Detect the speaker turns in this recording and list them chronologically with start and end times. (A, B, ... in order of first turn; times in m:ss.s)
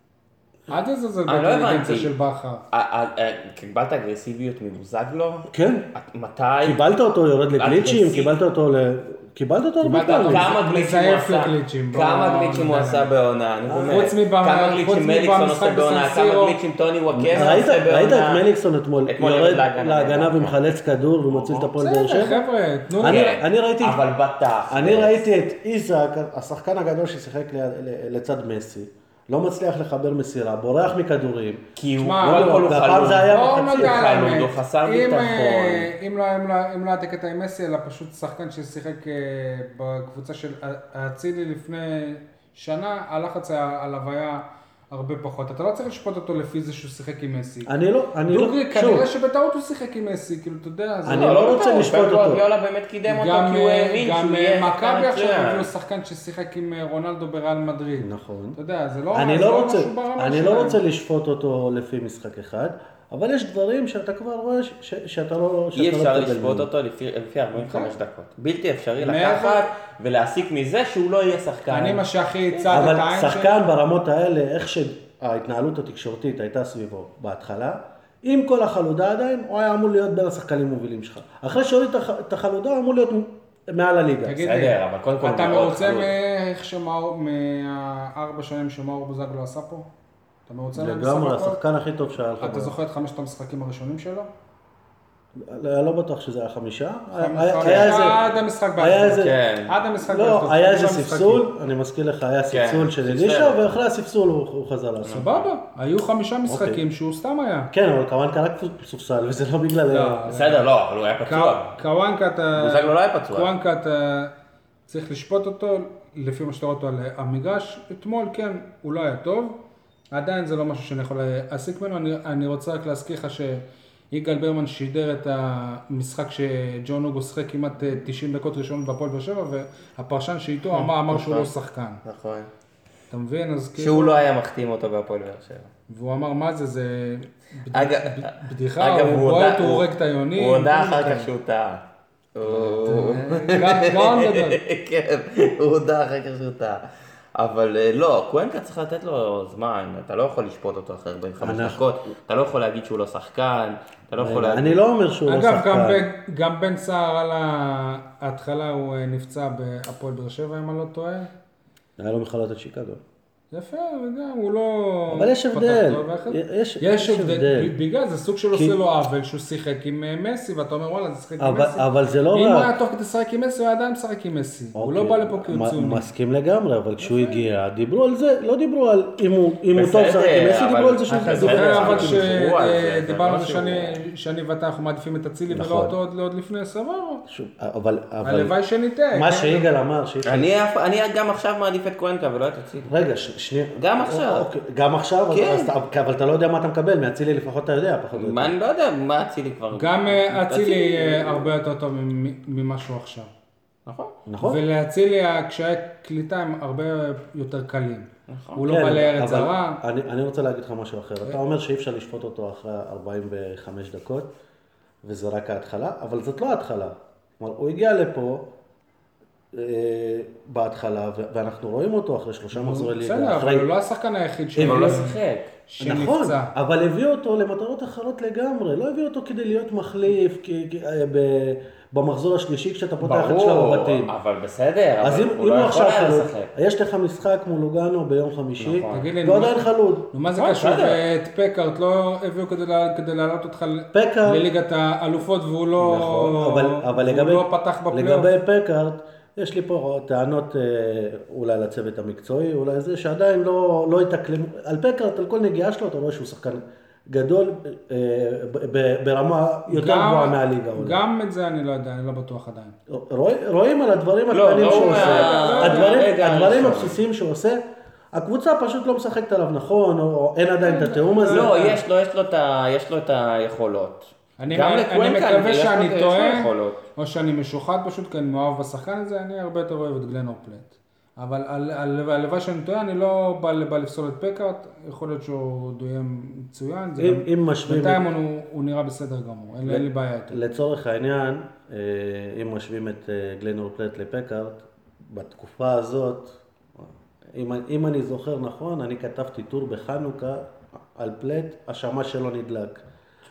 0:00.7-0:02.6 A
0:01.3-0:02.1 B
0:02.7-0:06.8 B
0:05.5-0:05.9 C
0:06.6-0:10.5 C
0:07.6-0:08.3 B
0:09.8-0:13.1 A
0:10.0-0:18.4 B
0:13.6-0:14.1 C
0:13.9-0:16.6 A
0:17.1-0:22.4 C
0:19.1-0:20.6 B
0:21.3-0:21.7 B
0:21.8-0:23.3 A
0:23.0-0:24.0 C
0:23.0-0:25.2 B
0:24.7-0:31.6 C
0:31.8-0:35.9 B
0:32.0-0:32.7 A
0:32.2-0:34.4 C
0:33.2-0:47.7 A
0:47.6-0:49.1 C
0:48.3-0:51.6 A
0:51.0-0:52.4 C
0:51.1-0:55.7 B
0:53.1-1:00.8 A
0:58.0-0:58.6 C
0:59.1-1:06.7 C
1:05.7-1:12.8 B
1:07.6-1:07.9 A
1:09.0-1:09.7 A
1:11.7-1:13.6 A
1:12.7-1:24.4 C
1:24.2-1:29.9 A
1:24.4-1:26.1 B
1:30.5-1:31.6 A
1:30.7-1:32.8 C
1:32.4-1:34.3 A
1:35.4-1:38.3 C
1:37.2-1:41.5 A
1:37.6-1:38.0 B
1:38.8-1:39.4 C
1:39.2-1:39.8 B
1:40.0-1:45.2 C
1:42.5-1:43.8 B
1:45.0-1:45.5 B
1:45.1-1:47.7 A
1:46.4-1:46.8 C
1:47.7-1:50.3 C
1:49.9-1:50.6 A
1:50.3-1:51.8 B
1:51.2-1:54.3 A
1:52.6-1:53.5 B
1:54.9-1:59.6 A
2:00.1-2:12.0 A
2:10.7-2:11.5 B
2:12.0-2:12.5 B
2:13.1-2:14.2 A
2:13.8-2:15.7 B
2:15.9-2:21.3 A
2:17.7-2:21.8 B
2:22.4-2:34.8 B
2:22.4-2:24.6 A
2:31.4-2:31.8 C
2:34.2-2:36.1 C
2:35.3-2:41.3 A
2:42.0-2:43.0 C
2:43.5-2:56.0 A
2:45.1-2:47.7 C
2:48.5-2:48.8 C
2:51.4-2:52.7 C
2:54.8-3:02.3 C
2:57.0-2:57.4 A
2:59.7-3:04.0 B
3:01.1-3:07.2 A
3:05.5-3:05.9 C
3:07.3-3:08.5 C
3:08.2-3:09.7 A
3:09.1-3:10.5 C
3:10.2-3:12.9 B
3:12.9-3:18.5 C
3:13.8-3:14.5 B
3:15.3-3:15.7 B
3:18.1-3:21.5 B
3:19.7-3:23.3 A
3:23.9-3:24.1 B
3:24.3-3:24.6 C
3:24.4-3:29.8 A
3:28.3-3:28.8 B
3:28.7-3:34.3 C
3:35.0-3:38.5 C
3:39.5-3:43.7 C
3:42.5-3:46.5 A
3:44.6-3:45.0 C
3:44.6-3:45.6 B
3:45.8-3:54.1 C
3:53.0-3:56.5 B
3:55.0-4:00.1 C
3:58.6-3:59.1 B
3:58.9-4:08.3 A
4:00.4-4:01.0 B
4:03.9-4:04.4 C
4:05.8-4:21.0 C
4:19.7-4:22.7 A
4:22.9-4:27.6 C
4:24.3-4:27.0 B
4:24.6-4:26.0 A
4:28.1-4:31.6 C
4:30.6-4:31.8 A
4:31.3-4:36.8 B
4:34.4-4:50.4 A
4:47.0-4:48.0 C
4:49.6-5:02.8 C